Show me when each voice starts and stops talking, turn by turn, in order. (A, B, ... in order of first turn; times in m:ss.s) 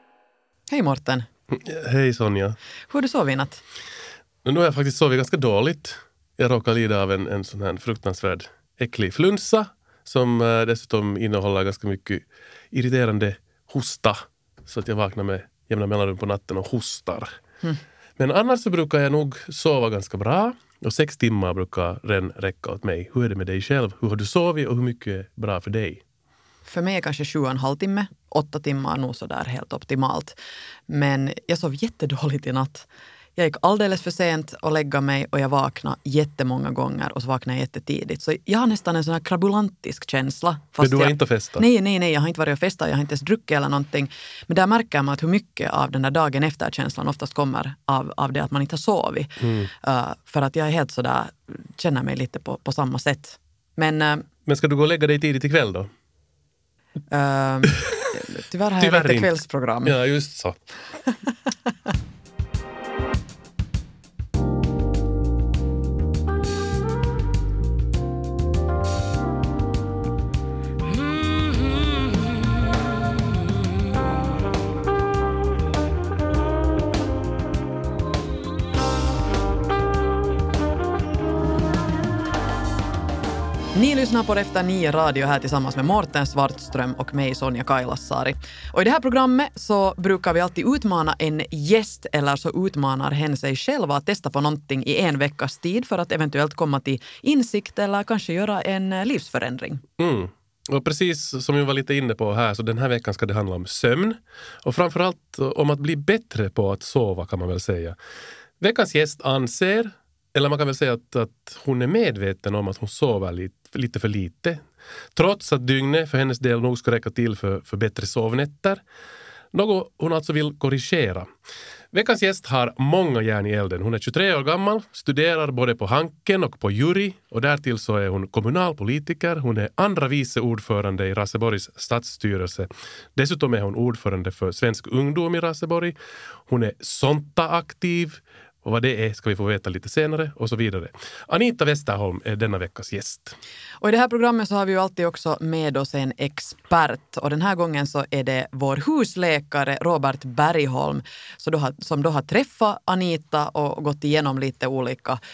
0:00.7-0:01.3 A
0:01.5-0:02.6 B
0:02.9-0:03.6 A
0:04.4-0:17.4 B
0:18.2-0:26.0 B
0:26.7-0:30.4 A
0:30.9-0:32.8 A
0:33.4-0:54.3 A
0:40.8-0:41.6 B
0:49.4-0:49.7 B
0:54.4-0:55.9 B
0:57.1-1:00.0 A
0:58.8-1:00.6 B
1:23.7-1:39.8 A
1:40.0-1:48.0 B
1:48.6-1:58.8 B
1:59.5-2:01.3 B
2:01.9-2:15.9 B
2:16.5-2:23.4 B
2:23.8-2:35.2 A